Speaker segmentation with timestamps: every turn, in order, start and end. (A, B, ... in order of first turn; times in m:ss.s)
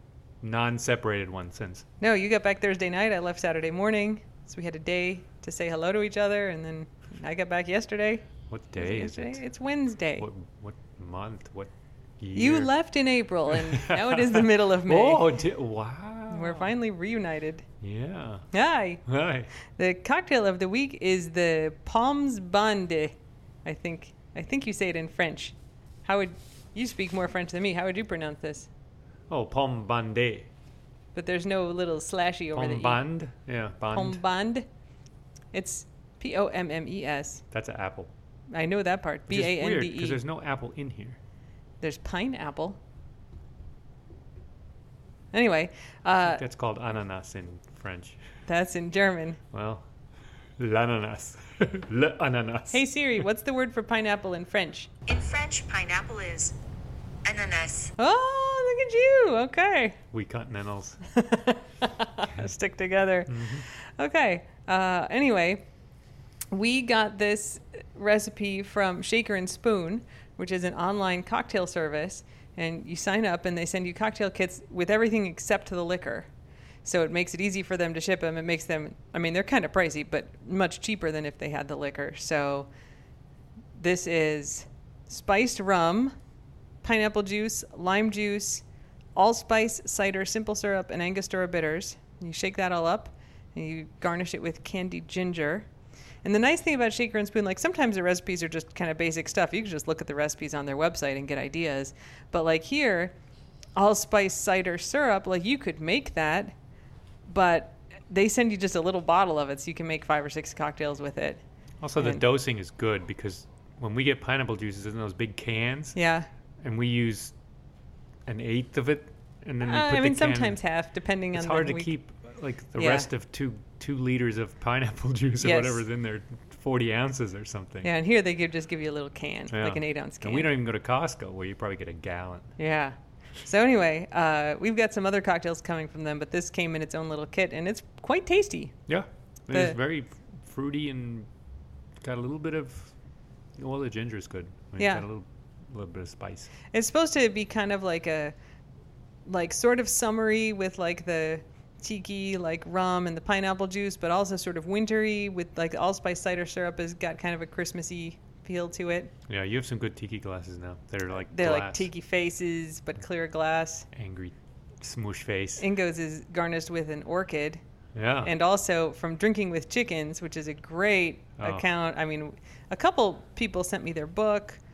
0:00.4-0:01.9 A
0:02.0-0:10.3 B
0:08.5-0:09.4 A
0:10.2-0:12.7 A
0:12.3-0:15.4 B
0:13.5-0:16.7 A
0:16.3-0:17.6 B
0:17.8-0:18.5 A
0:18.5-0:19.0 B
0:19.0-0:19.5 A
0:19.6-0:23.1 B
0:23.6-0:28.7 B
0:29.3-0:30.5 A
0:31.1-0:33.0 B
0:32.5-0:34.2 A
0:33.9-0:34.6 B
0:35.5-0:37.4 B
0:37.5-0:38.1 A
0:38.5-0:40.2 B
0:39.3-0:41.2 A
0:41.8-0:42.8 B
0:45.3-0:46.4 B
0:46.2-0:48.2 A
0:48.5-0:49.4 B
0:49.5-0:49.8 A
0:50.6-0:52.8 A
0:52.7-0:54.9 B
0:55.1-0:56.6 C
0:57.2-0:57.9 C
0:58.0-1:00.0 B
1:00.1-1:01.0 A
1:01.1-1:05.6 B
1:03.3-1:03.6 A
1:06.5-1:16.3 B
1:16.8-1:22.7 B
1:23.8-1:26.1 B
1:26.8-1:28.6 B
1:29.2-1:35.7 B
1:36.2-1:43.1 B
1:43.8-1:46.5 B
1:47.3-1:51.4 B
1:51.8-1:56.0 A
1:52.0-1:52.2 B
1:55.9-1:56.3 B
1:56.6-1:57.3 A
1:58.2-2:00.6 A
1:59.6-2:01.9 B
2:01.3-2:07.9 A
2:02.8-2:03.1 B
2:05.4-2:05.8 B
2:07.8-2:10.5 B
2:09.5-2:12.5 A
2:12.6-2:18.8 B
2:18.9-2:21.3 A
2:22.0-2:22.9 A
2:23.6-2:26.5 A
2:24.8-2:25.0 B
2:26.7-2:28.3 B
2:29.2-2:39.1 B
2:39.3-2:41.9 A
2:41.3-2:43.9 B
2:43.9-2:45.6 A
2:45.6-2:47.6 B
2:47.9-2:48.3 A
2:48.2-2:54.6 B
2:51.4-2:51.6 A